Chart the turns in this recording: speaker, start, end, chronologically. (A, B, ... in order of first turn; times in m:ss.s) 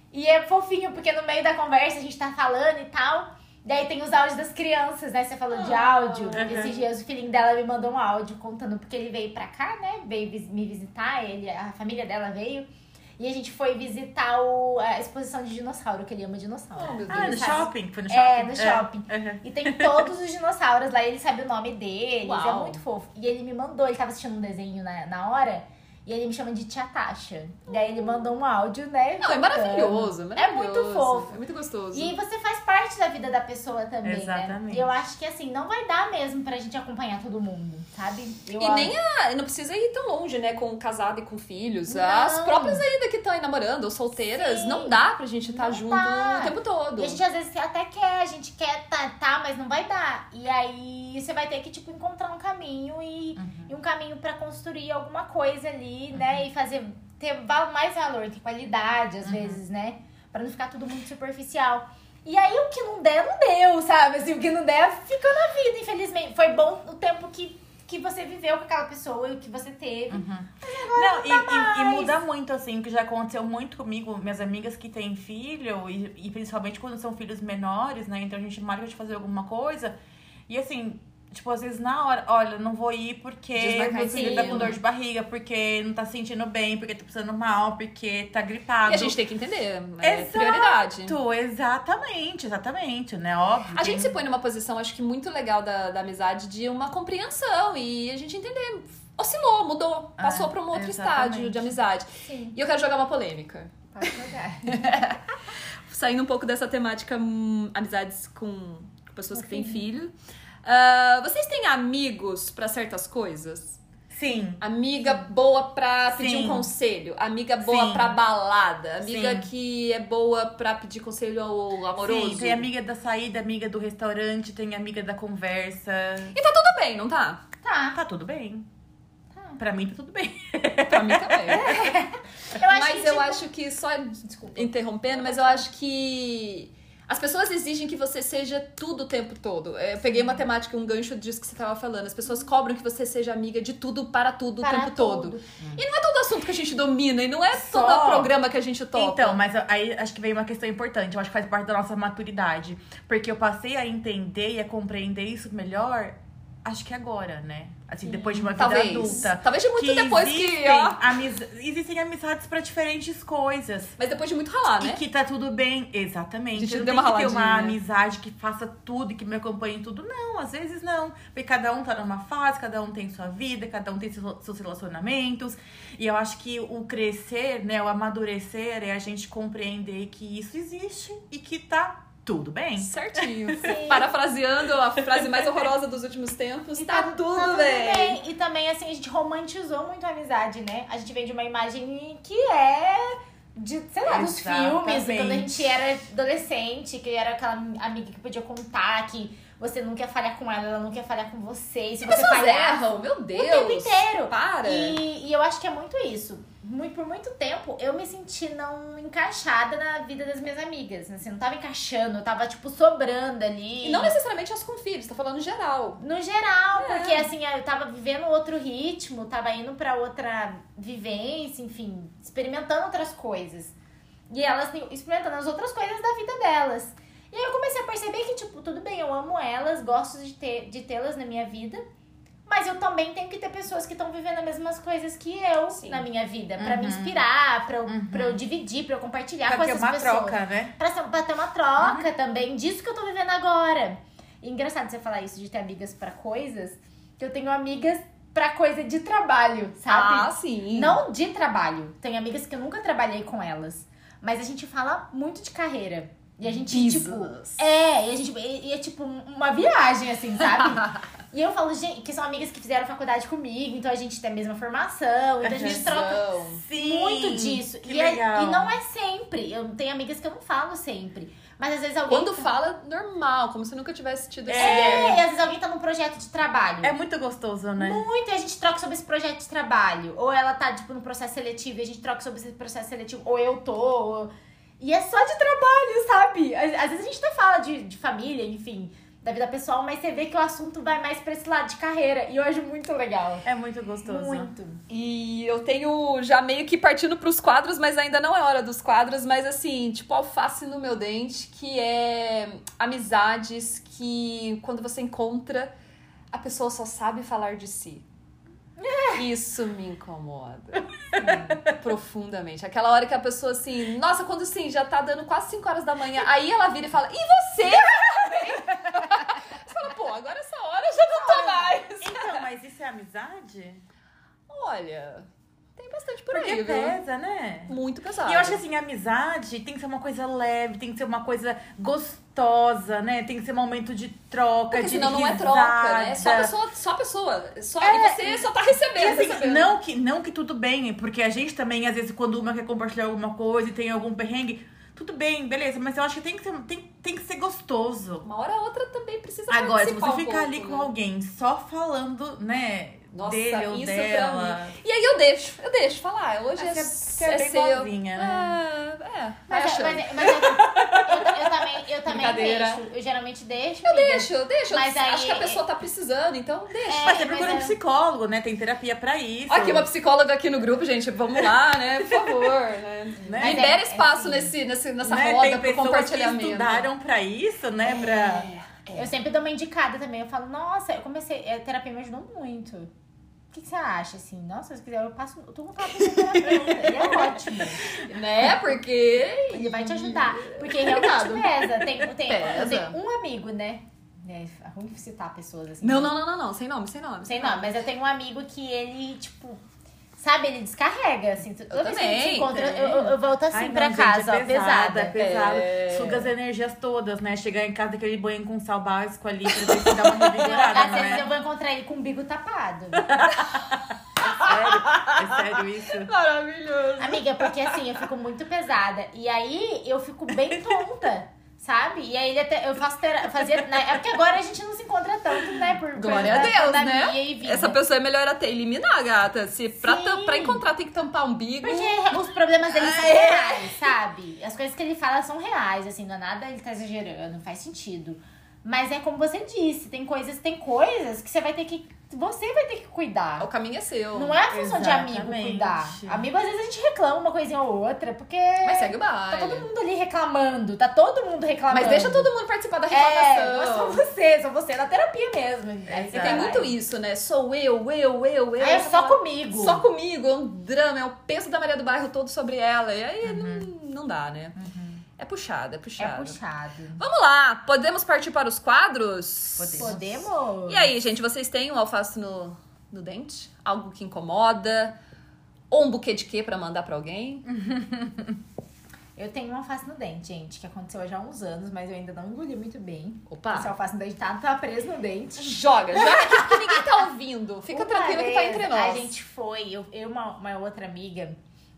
0:00.1-0:31.4 A
0:05.5-0:06.8 B
0:06.3-0:06.8 C
0:16.8-0:17.7 B
0:17.1-0:20.1 C
0:22.2-0:22.8 B
0:27.7-0:28.3 B
0:29.2-0:32.1 B
0:31.9-0:38.9 A
0:34.0-0:34.9 C
0:38.6-0:47.2 B
0:41.9-0:42.8 A
0:44.3-1:12.2 A
0:53.4-0:53.7 C
0:56.1-0:56.4 C
0:59.2-0:59.6 C
1:10.1-1:20.0 C
1:20.5-1:29.2 C
1:23.6-1:24.8 B
1:24.2-1:24.8 A
1:28.8-1:31.2 B
1:30.0-1:34.1 C
1:33.7-1:45.2 B
1:40.2-1:41.8 C
1:42.2-1:42.6 A
1:43.9-1:44.9 A
1:45.9-1:50.1 B
1:49.3-1:49.8 A
1:50.6-1:53.8 B
1:54.1-1:54.6 C
1:54.6-2:02.7 B
1:56.1-1:56.7 C
1:57.6-1:58.2 C
1:59.0-1:59.5 C
2:02.0-2:06.4 C
2:06.3-2:07.4 B
2:07.6-2:08.0 A
2:07.9-2:08.7 C
2:09.3-2:09.6 A
2:09.6-2:11.8 C
2:10.9-2:11.9 B
2:11.5-2:13.4 A
2:12.7-2:29.4 B
2:14.3-2:15.7 A
2:24.6-2:25.4 A
2:27.7-2:28.3 C
2:28.9-2:44.0 C
2:38.0-2:38.6 A
2:38.5-2:41.0 B
2:44.0-2:45.0 B
2:44.8-3:03.3 C
2:46.5-2:47.8 B
3:02.8-3:08.2 B
3:03.6-3:04.1 A
3:06.8-3:34.1 A
3:14.0-3:15.6 C
3:22.0-3:25.0 B
3:33.8-3:36.0 B
3:36.0-3:43.7 A
3:36.8-3:37.3 B
3:44.3-3:51.8 A
3:52.4-4:32.5 A
3:55.7-3:56.0 B
3:56.6-3:57.2 C
3:57.9-3:58.4 C
3:59.4-4:00.7 C
4:01.8-4:02.0 C
4:09.9-4:11.0 B
4:16.7-4:17.6 B
4:25.4-4:25.9 C
4:25.5-4:26.6 B
4:26.6-4:28.8 C
4:32.1-4:35.2 B
4:34.5-4:35.2 C
4:34.6-4:36.9 A
4:36.8-4:38.0 C
4:37.8-4:53.5 A
4:53.4-4:54.5 C
4:54.0-4:54.8 A
4:54.9-5:05.7 B
5:06.3-5:08.0 B
5:08.8-5:09.2 A
5:09.1-5:22.4 B
5:11.2-5:11.6 A
5:21.2-5:23.8 C
5:24.5-5:27.0 B
5:26.3-5:36.5 C
5:27.7-5:28.6 B
5:34.7-5:39.7 B
5:37.9-5:48.3 C
5:48.2-5:50.9 B
5:49.5-5:54.7 C
5:53.1-6:00.4 B
5:56.6-5:58.6 C
5:59.5-6:05.6 A
6:00.3-6:01.3 C
6:02.0-6:02.8 B
6:03.8-6:07.2 B
6:06.8-6:07.8 A
6:07.0-6:09.9 C
6:09.5-6:16.9 B
6:13.2-6:13.7 C
6:13.4-6:14.5 A
6:15.0-6:18.5 C
6:17.9-6:19.1 B
6:18.9-6:22.9 A
6:23.5-6:27.9 A
6:27.9-6:33.0 B
6:29.5-6:36.1 A
6:35.8-6:37.7 B
6:37.2-6:39.6 A
6:40.2-6:45.1 A
6:41.7-6:43.1 B
6:43.5-6:51.3 C
6:45.1-6:46.3 B
6:49.5-6:51.2 B
6:50.4-6:53.3 A
6:53.1-6:53.6 C
6:54.2-6:57.8 B
6:54.4-6:56.1 C
6:57.0-7:07.8 A
7:06.0-7:13.9 B
7:06.1-7:06.4 C
7:09.8-7:10.6 A
7:11.6-7:23.5 A
7:23.4-7:24.4 B
7:24.1-7:32.3 A
7:24.5-7:26.2 C
7:28.6-7:29.7 B
7:31.7-7:34.0 B
7:32.9-7:36.7 A
7:35.9-7:36.6 C
7:36.1-7:44.6 B
7:38.6-7:39.8 A
7:43.2-7:43.7 C
7:44.6-7:45.0 C
7:45.2-7:46.4 B
7:46.0-7:47.0 A
7:47.0-7:50.0 B
7:49.6-7:50.2 C
7:49.8-7:50.9 A
7:50.7-7:55.0 B
7:55.7-7:57.5 B
7:57.5-7:58.4 C
7:59.2-8:06.8 A
8:03.3-8:03.7 B
8:05.4-8:09.1 B
8:07.7-8:11.4 A